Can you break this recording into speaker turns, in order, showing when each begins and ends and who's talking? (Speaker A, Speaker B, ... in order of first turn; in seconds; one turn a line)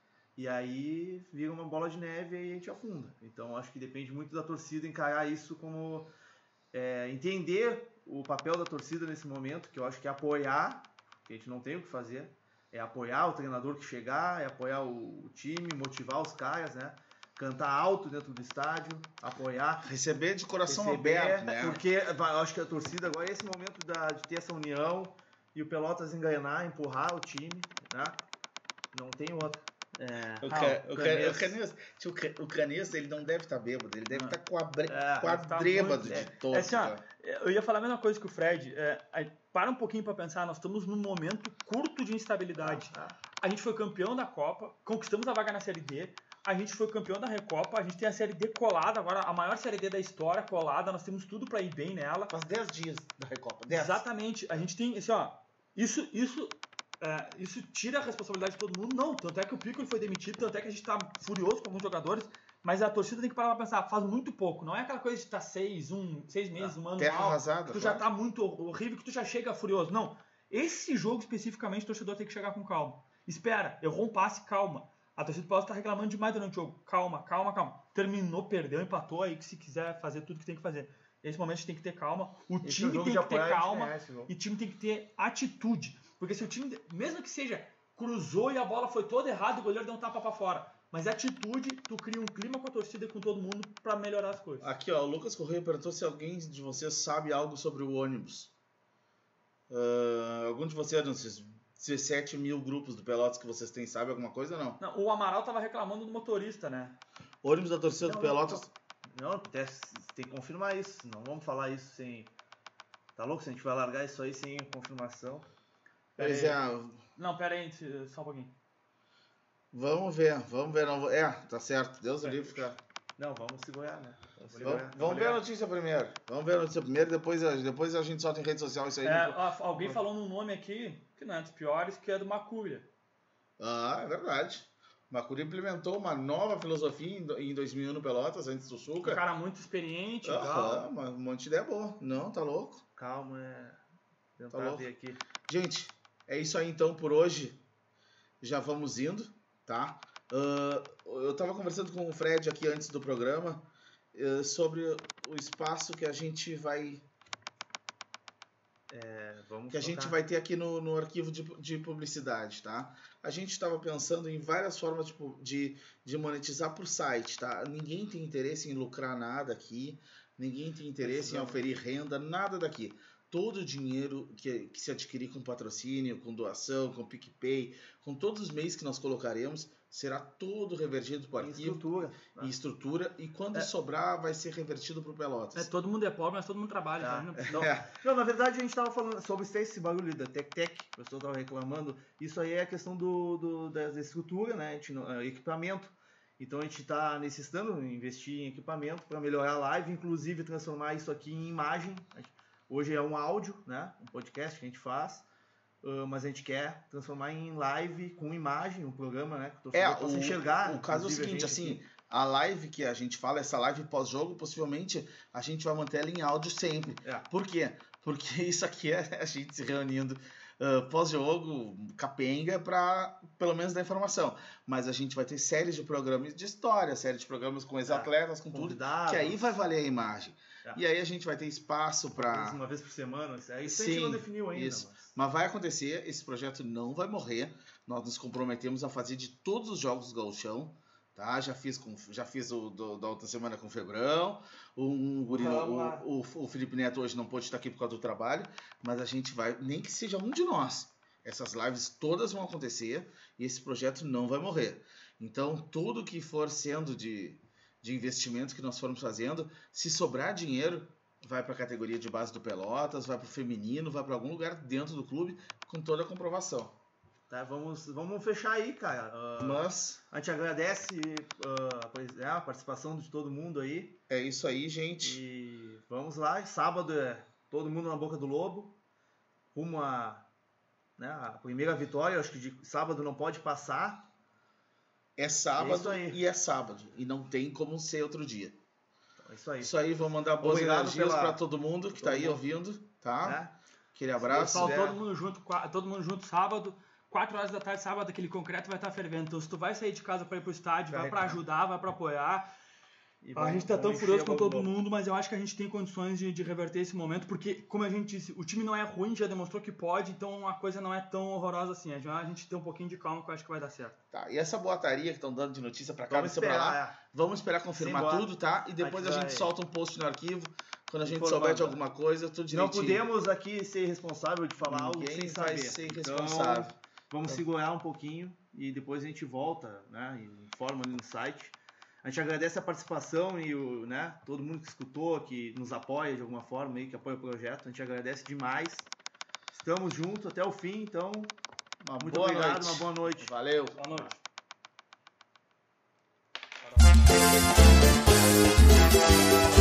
Speaker A: 0.4-6.1
Speaker A: 6.7-19.9
Speaker B: 19.8-21.8
Speaker A: 20.7-28.2
Speaker A: 28.9-31.6
Speaker B: 30.4-37.0
Speaker A: 34.9-36.3
Speaker C: 35.5-52.3
Speaker A: 42.6-43.2
Speaker B: 52.3-54.0
Speaker C: 53.7-94.7
Speaker B: 66.6-68.1
Speaker A: 82.6-84.3
Speaker B: 94.6-98.5
Speaker B: 99.7-104.8
Speaker C: 104.8-107.0
Speaker B: 107.4-108.7
Speaker A: 108.0-112.3
Speaker A: 113.2-115.5
Speaker A: 116.2-116.6
Speaker B: 116.2-117.0
Speaker C: 117.2-118.5
Speaker B: 119.7-122.8
Speaker A: 123.2-125.4
Speaker C: 124.5-125.3
Speaker B: 124.6-129.4
Speaker C: 129.0-132.9
Speaker B: 133.6-139.2
Speaker C: 139.0-140.9
Speaker B: 140.2-142.8
Speaker A: 143.0-143.8
Speaker A: 144.4-145.2
Speaker B: 144.5-144.9
Speaker B: 145.5-147.6
Speaker B: 148.4-157.1
Speaker A: 158.9-160.2
Speaker B: 159.7-181.9
Speaker A: 171.0-171.7
Speaker A: 181.4-182.5
Speaker B: 182.4-185.7
Speaker C: 185.6-187.7
Speaker A: 187.0-205.3
Speaker B: 187.5-187.9
Speaker A: 205.8-211.8
Speaker B: 209.7-232.6
Speaker A: 217.0-217.3
Speaker A: 227.9-229.6
Speaker A: 232.2-235.1
Speaker B: 233.7-266.8
Speaker A: 245.3-246.1
Speaker A: 267.3-274.0
Speaker B: 269.4-270.0
Speaker B: 274.1-275.2
Speaker A: 275.0-278.8
Speaker A: 279.5-280.3
Speaker A: 281.0-284.1
Speaker B: 285.2-288.6
Speaker A: 285.6-286.2
Speaker A: 289.2-289.8
Speaker B: 289.6-293.4
Speaker A: 290.3-291.4
Speaker A: 291.9-292.4
Speaker A: 293.2-293.5
Speaker B: 293.9-294.9
Speaker A: 294.2-295.0
Speaker C: 294.4-302.5
Speaker A: 300.9-301.4
Speaker A: 303.2-304.7
Speaker C: 303.4-313.9
Speaker B: 314.1-323.1
Speaker A: 316.1-317.0
Speaker A: 317.8-319.5
Speaker A: 321.0-321.8
Speaker A: 322.5-338.9
Speaker B: 324.6-326.7
Speaker A: 339.5-341.3
Speaker B: 341.8-344.0
Speaker A: 342.0-344.1
Speaker C: 343.8-344.2